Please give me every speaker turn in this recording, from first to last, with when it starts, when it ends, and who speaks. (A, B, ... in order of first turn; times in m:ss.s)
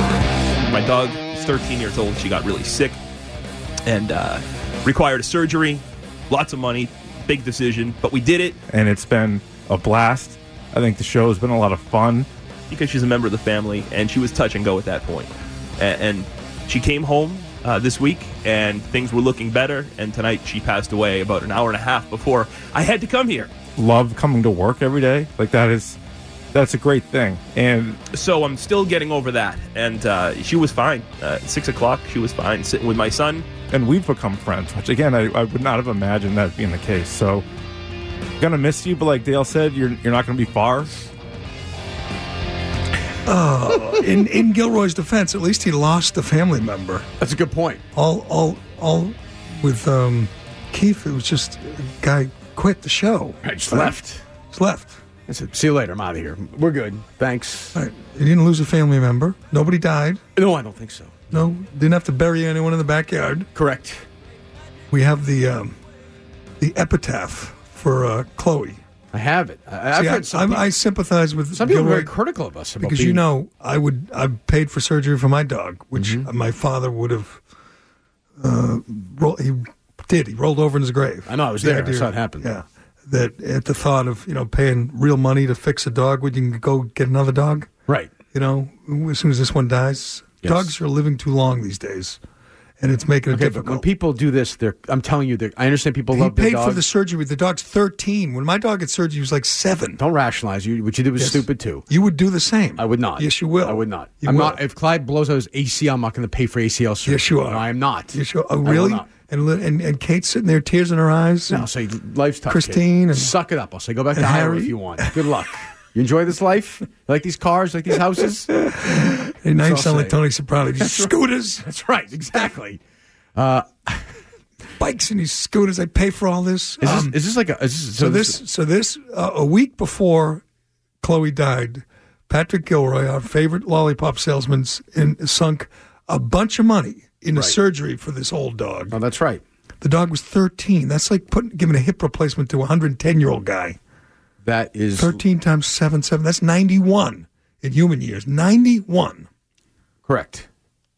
0:00.6-0:03.0 A
0:03.8-0:08.6 A
0:08.7-0:12.3 B
0:12.7-0:23.6 A
0:23.8-0:26.0 B
0:26.5-0:28.0 B
0:28.1-0:33.5 A
0:33.7-0:37.5 B
0:38.4-0:40.9 B
0:43.2-0:47.1 C
0:47.2-0:47.8 D
0:47.9-0:54.0 C
0:53.4-0:54.2 D
0:54.5-0:55.0 C
0:55.3-0:57.8 D
0:57.8-1:00.2 C
1:00.4-1:01.5 D
1:01.3-1:03.5 C
1:03.6-1:04.1 D
1:04.9-1:05.8 C
1:06.6-1:08.8 C
1:09.1-1:10.7 D
1:09.9-1:12.1 C
1:11.5-1:13.2 D
1:12.8-1:17.4 C
1:16.0-1:16.3 D
1:18.4-1:27.7 C
1:21.3-1:22.5 D
1:27.9-1:28.1 D
1:28.3-1:32.2 C
1:30.4-1:30.7 D
1:32.8-1:33.8 C
1:33.3-1:36.8 D
1:36.1-1:40.0 C
1:40.0-1:41.8 D
1:41.2-1:44.6 C
1:42.8-1:49.1 D
1:47.0-1:51.7 C
1:51.5-1:58.8 D
1:52.5-1:53.3 C
1:54.1-1:55.3 C
1:58.6-2:01.6 C
1:59.6-2:00.2 D
2:00.8-2:02.8 D
2:03.4-2:04.1 D
2:04.8-2:07.2 C
2:06.8-2:08.4 D
2:08.0-2:10.4 C
2:11.0-2:19.0 C
2:18.9-2:19.4 D
2:19.8-2:23.8 C
2:24.4-2:25.2 D
2:25.0-2:29.3 C
2:30.1-2:30.5 D